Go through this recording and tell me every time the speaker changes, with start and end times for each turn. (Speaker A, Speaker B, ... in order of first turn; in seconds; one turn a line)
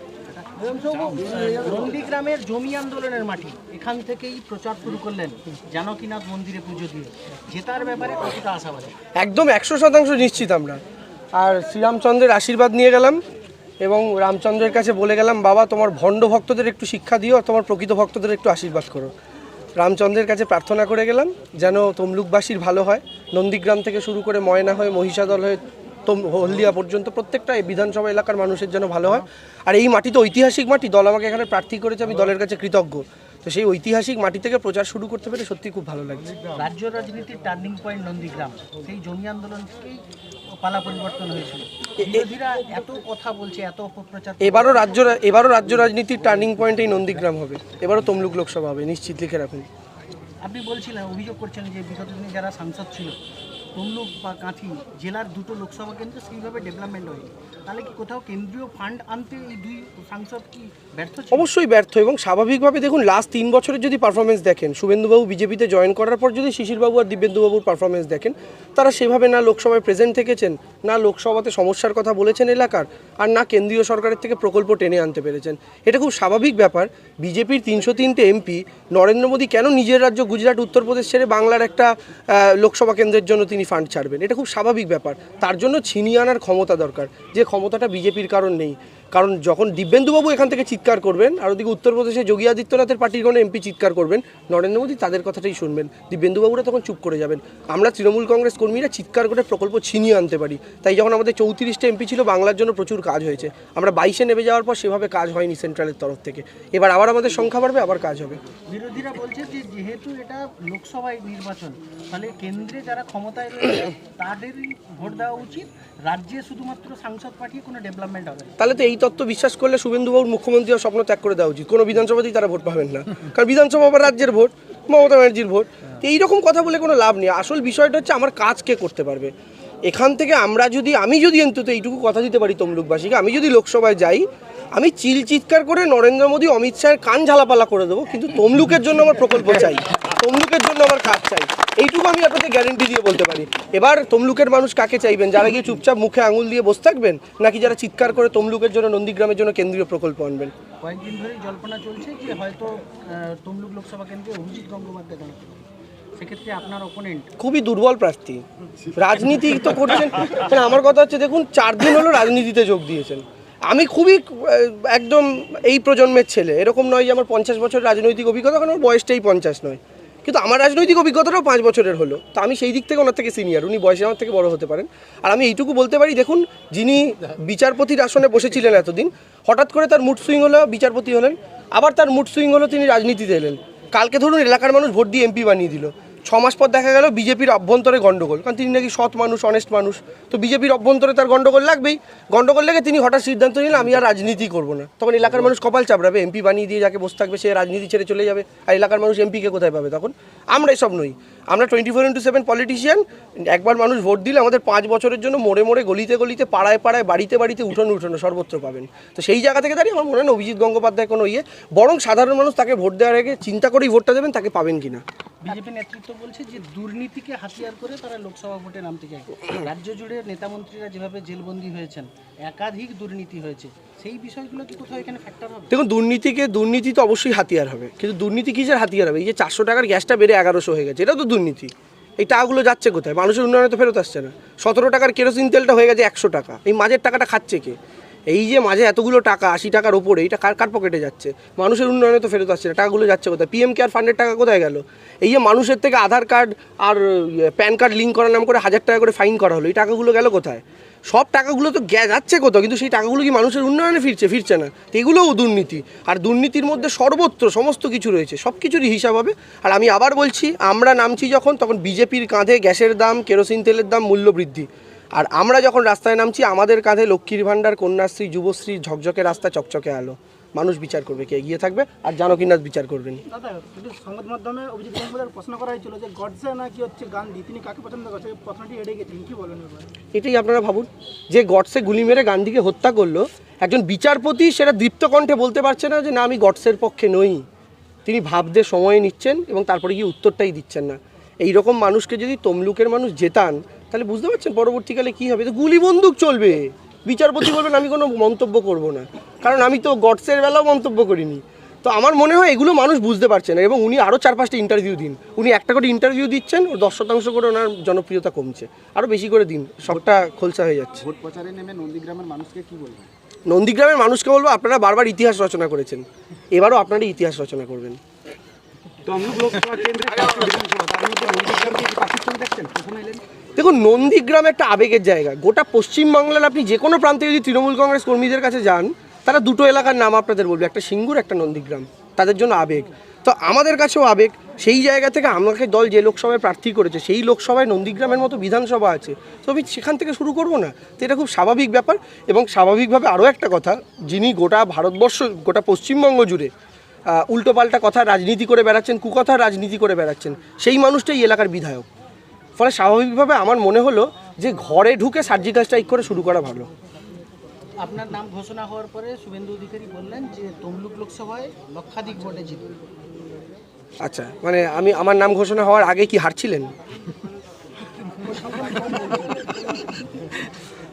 Speaker A: 0.3-8.9
Speaker B: 9.2-10.8
Speaker B: 11.3-13.2
Speaker B: 13.8-19.1
Speaker B: 19.8-36.3
Speaker A: 36.5-40.0
Speaker A: 40.5-45.0
Speaker B: 42.0-42.3
Speaker B: 44.4-49.7
Speaker A: 50.4-53.2
Speaker A: 53.8-61.5
Speaker B: 61.3-108.4
Speaker A: 108.7-118.6
Speaker B: 118.6-129.3
Speaker B: 129.8-150.5
Speaker A: 150.8-155.7
Speaker A: 156.2-157.3
Speaker B: 157.4-158.4
Speaker B: 159.0-215.0
Speaker A: 215.4-225.8
Speaker B: 225.7-237.8
Speaker B: 238.3-273.2
Speaker C: 273.3-279.9
Speaker B: 280.1-287.4
Speaker B: 288.1-311.0
Speaker D: 311.0-313.1
Speaker B: 313.5-318.0
Speaker D: 319.1-323.2
Speaker B: 323.6-346.5
Speaker B: 347.1-351.9
Speaker B: 352.6-356.7
Speaker A: 357.8-362.8
Speaker B: 364.0-366.7
Speaker C: 368.4-369.4